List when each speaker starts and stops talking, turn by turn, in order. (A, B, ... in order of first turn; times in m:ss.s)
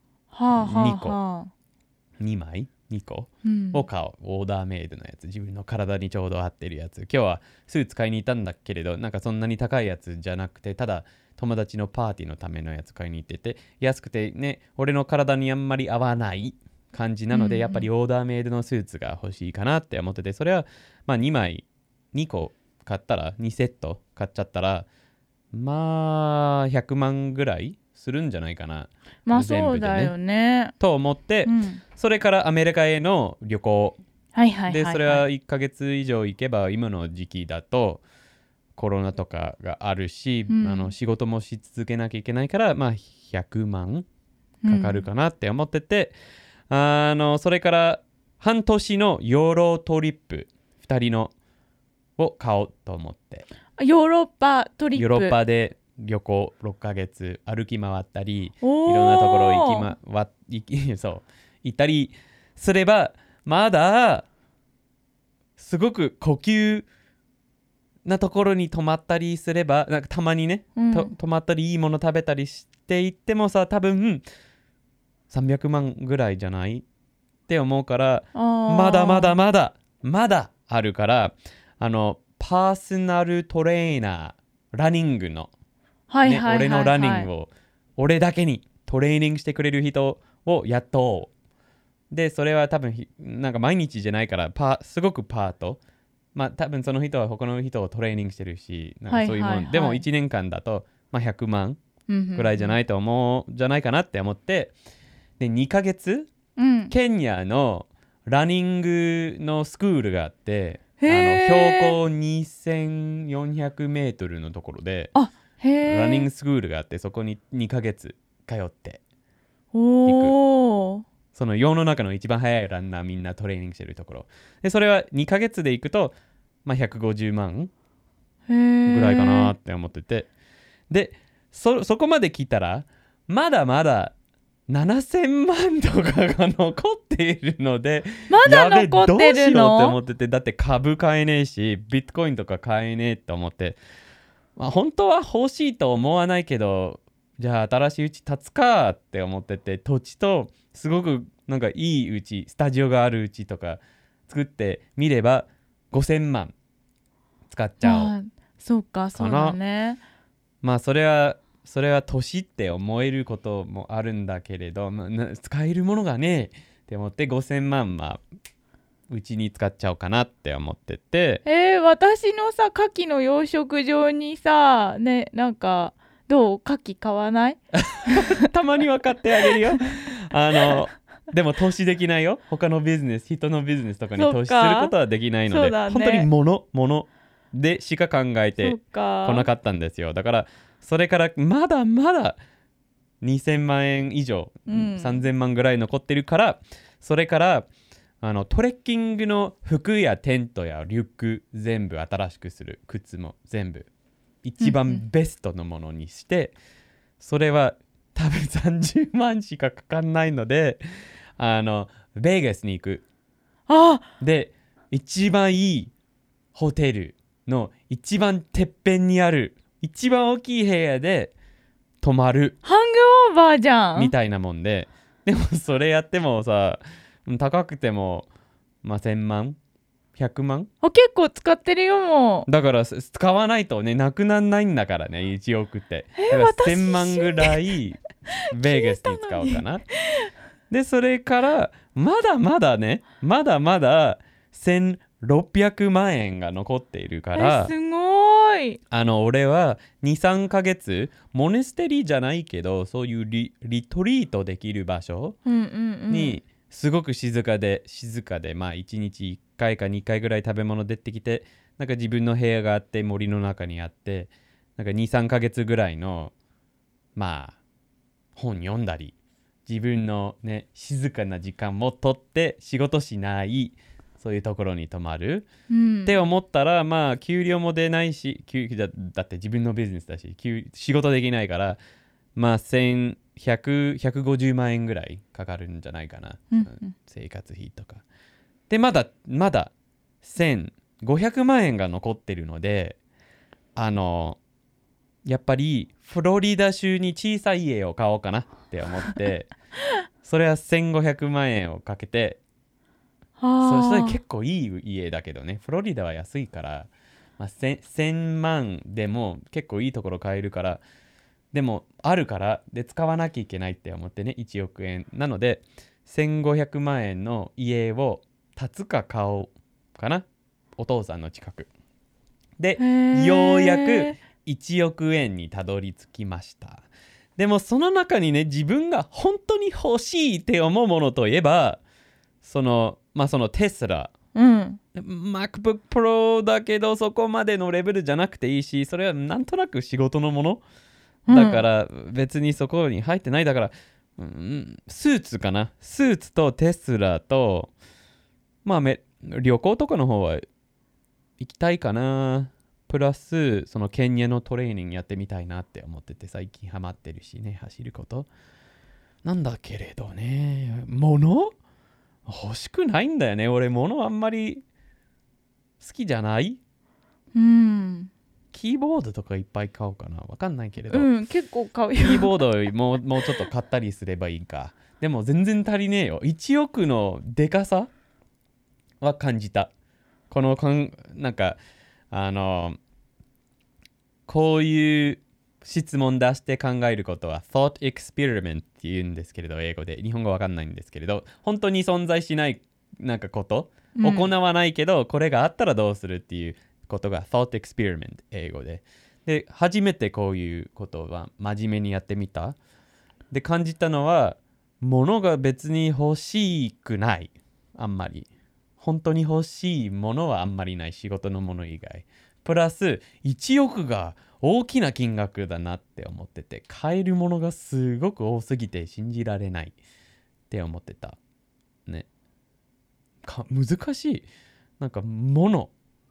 0:00.3-0:01.5 A
0:00.5-0:01.2 B
0:02.2-0:24.9 B
0:03.4-0:03.8 A
0:17.3-0:17.9 A
0:25.5-0:30.1 B
0:29.2-0:30.7 A
0:30.8-0:34.0 B
0:31.4-0:31.8 A
0:34.3-0:35.2 A
0:34.7-0:38.0 B
0:38.7-0:44.0 B
0:40.5-0:40.9 A
0:44.6-0:45.0 A
0:44.6-0:46.2 B
0:46.7-0:51.3 B
0:52.2-0:53.4 B
0:53.8-0:55.4 A
0:54.9-1:04.2 B
0:58.6-0:59.9 A
1:05.6-1:06.9 B
1:08.0-1:14.2 B
1:10.8-1:11.1 A
1:15.3-1:16.8 B
1:17.5-1:25.5 B
1:18.3-1:19.4 A
1:26.1-1:27.3 A
1:26.2-1:31.3 B
1:32.1-1:35.8 B
1:36.3-1:41.8 B
1:39.1-1:40.0 A
1:42.1-1:42.8 A
1:42.3-1:44.7 B
1:45.4-1:46.3 B
1:46.6-1:46.9 A
1:46.9-1:55.1 B
1:51.0-1:52.0 A
1:55.1-1:56.3 A
1:55.8-1:59.0 B
1:59.7-2:01.0 A
2:00.0-2:00.3 B
2:01.3-2:07.7 B
2:08.5-2:09.5 A
2:08.9-2:10.3 B
2:10.9-2:14.1 B
2:14.7-2:23.8 B
2:18.3-2:20.0 A
2:24.6-2:36.5 B
2:37.5-2:38.1 B
2:37.8-2:40.0 A
2:39.1-2:39.6 B
2:40.6-2:48.2 B
2:49.1-2:51.4 B
2:51.4-2:58.5 A
2:57.9-3:12.4 B
3:04.2-3:04.9 A
3:05.4-3:06.3 A
3:08.6-3:09.5 A
3:13.2-3:17.7 B
3:14.7-3:15.2 A
3:18.2-3:23.9 B
3:24.4-3:26.6 B
3:24.6-3:25.0 A
3:27.2-3:30.8 B
3:31.4-3:33.0 B
3:33.7-3:34.1 A
3:34.2-3:35.9 B
3:36.5-3:41.3 B
3:42.0-3:42.6 B
3:42.6-3:44.1 A
3:43.9-3:48.3 B
3:48.8-3:49.6 B
3:50.2-3:50.7 B
3:50.8-3:52.5 A
3:52.5-3:59.8 B
3:56.2-3:57.6 A
3:58.5-4:00.3 A
4:00.7-4:07.7 B
4:07.3-4:08.8 A
4:08.9-4:15.4 B
4:15.4-4:16.4 A
4:16.1-4:26.3 B
4:27.2-4:27.6 B
4:28.3-4:29.1 B
4:29.6-4:35.5 B
4:35.7-4:36.2 A
4:36.0-4:41.8 B
4:42.4-4:48.0 B
4:46.5-4:46.9 A
4:48.7-4:49.7 B
4:50.2-4:53.0 B
4:53.8-4:54.4 B
4:55.2-4:59.5 B
5:00.2-5:02.4 B
5:03.4-5:04.2 A
5:03.6-5:10.8 B
5:11.5-5:20.2 B
5:20.8-5:21.7 B
5:22.6-5:26.8 B
5:22.8-5:24.2 A
5:27.4-5:31.8 B
5:32.4-5:34.1 B
5:34.3-5:34.8 A
5:34.9-5:40.6 B
5:41.3-5:41.6 A
5:41.3-5:47.7 B
5:48.6-5:50.4 B
5:51.4-5:58.3 B
5:59.2-6:01.5 B
6:02.2-6:04.6 B
6:05.8-6:06.6 B
6:07.3-6:08.1 A
6:08.5-6:11.1 B
6:10.9-6:12.4 A
6:12.0-6:17.9 B
6:19.0-6:19.7 B
6:20.3-6:21.6 B
6:22.1-6:22.8 B
6:24.3-6:42.6 B
6:34.0-6:34.3 A
6:43.3-6:48.3 B
6:48.8-6:59.8 B
7:00.5-7:01.2 B
7:03.2-7:04.2 B
7:04.8-7:05.7 B